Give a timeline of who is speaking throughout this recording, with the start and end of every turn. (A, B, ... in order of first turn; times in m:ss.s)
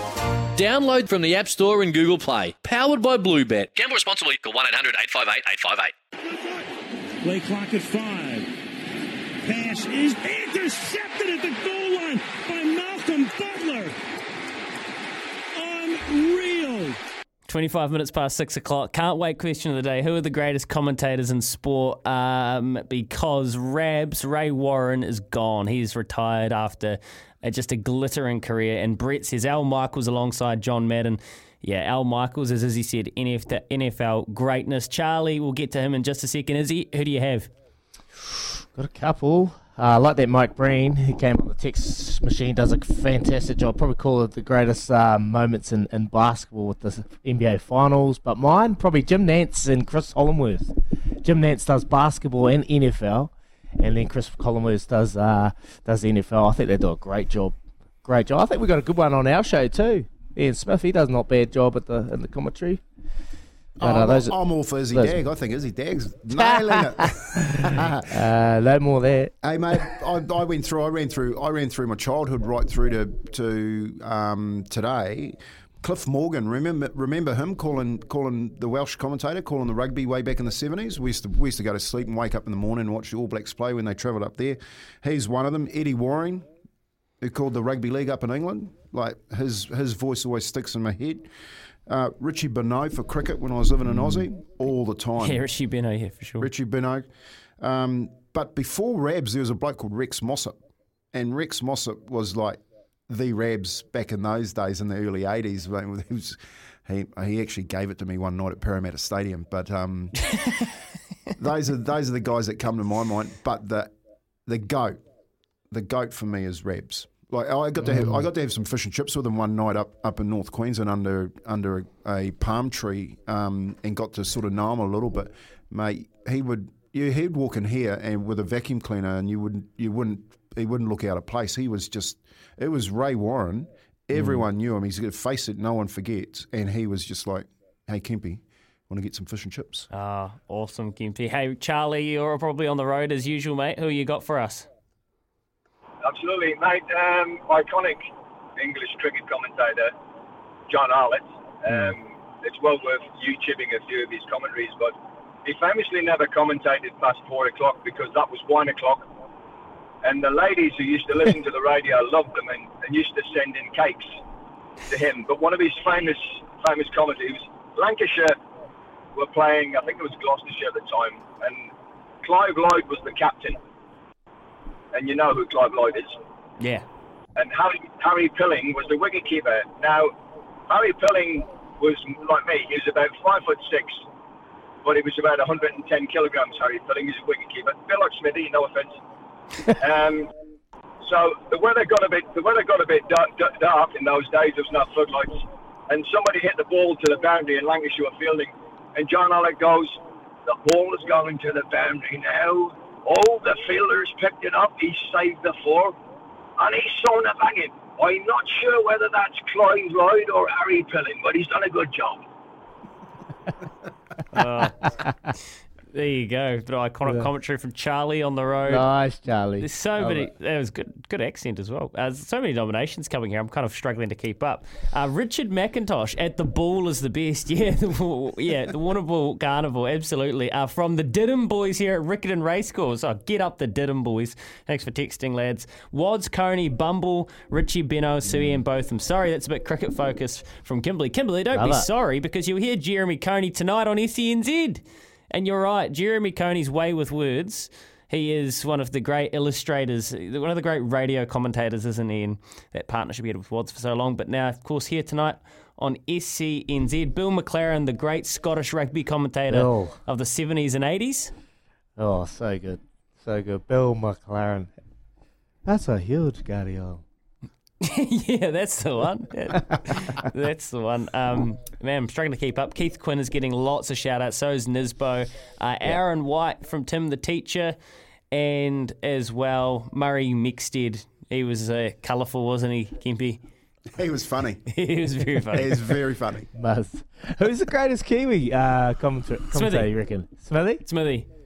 0:00.5-0:05.9 A
0:06.3-0:06.7 B
0:07.2-0:08.5 B
0:09.4-0:14.0 B
0:15.6-0:17.0 B
0:17.5-0:37.5 C
0:38.5-1:02.8 D
1:03.8-1:08.2 E
1:03.8-1:05.2 D
1:06.4-1:09.3 D
1:09.4-1:26.5 E
1:27.2-1:31.3 E
1:31.9-1:35.5 E
1:35.2-1:36.5 C
1:36.4-1:37.1 E
1:37.6-1:40.6 E
1:41.1-1:50.4 E
1:51.4-1:53.9 E
1:54.5-1:55.0 E
1:55.7-2:19.9 E
2:14.1-2:14.4 C
2:19.9-2:24.7 C
2:26.0-2:29.9 F
2:30.7-2:34.9 F
2:35.4-2:39.0 F
2:40.0-2:44.2 F
2:44.9-2:48.4 F
2:49.2-2:51.7 F
2:52.2-2:53.6 F
2:54.9-2:56.2 F
2:56.6-2:56.9 C
2:57.4-3:00.1 F
3:00.7-3:04.0 F
3:04.8-3:09.0 F
3:09.7-3:10.3 F
3:11.0-3:26.0 F
3:26.6-3:32.2 F
3:34.3-3:34.9 C
3:35.9-3:38.9 C
3:38.7-3:40.3 D
3:39.6-4:21.3 C
4:01.5-4:01.9 D
4:19.5-4:20.0 D
4:22.0-4:24.7 D
4:25.6-4:27.0 D
4:27.8-4:37.8 C
4:38.3-4:43.4 C
4:43.9-4:44.7 E
4:44.7-4:46.0 C
4:45.5-4:46.5 E
4:46.6-4:50.8 D
4:49.5-4:50.0 C
4:50.8-4:51.3 C